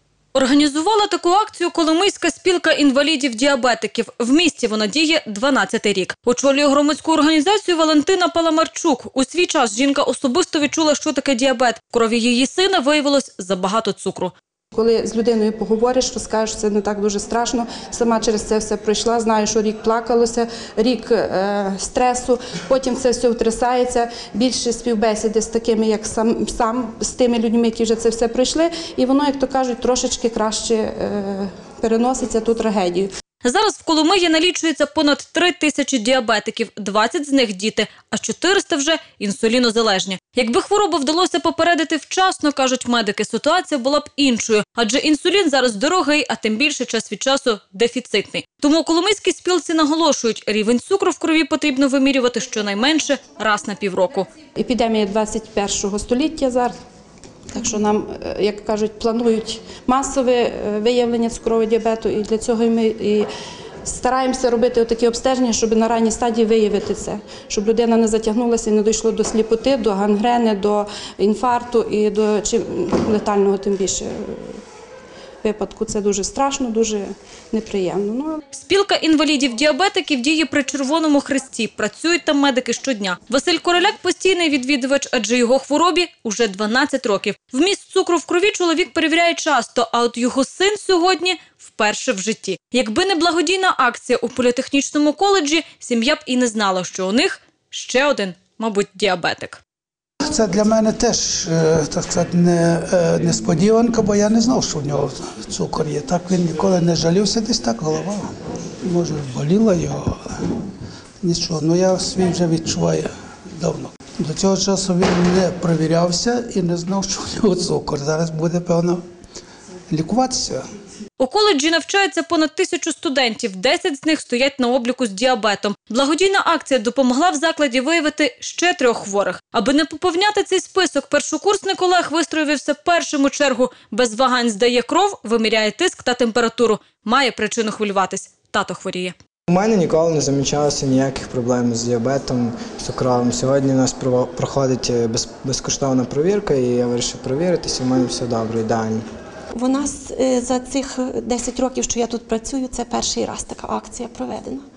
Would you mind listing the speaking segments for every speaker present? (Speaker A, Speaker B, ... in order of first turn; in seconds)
Speaker A: 0.3-14.3, 33.4-54.3, 78.5-99.6, 121.2-139.2
Speaker B: 14.7-33.1, 54.6-56.7, 57.5-63.3, 63.9-74.6, 75.4-78.4
Speaker C: 100.2-108.3, 108.8-110.4, 111.2-119.0, 119.9-120.6
Speaker D: 139.5-149.1
Speaker E: 149.6-154.6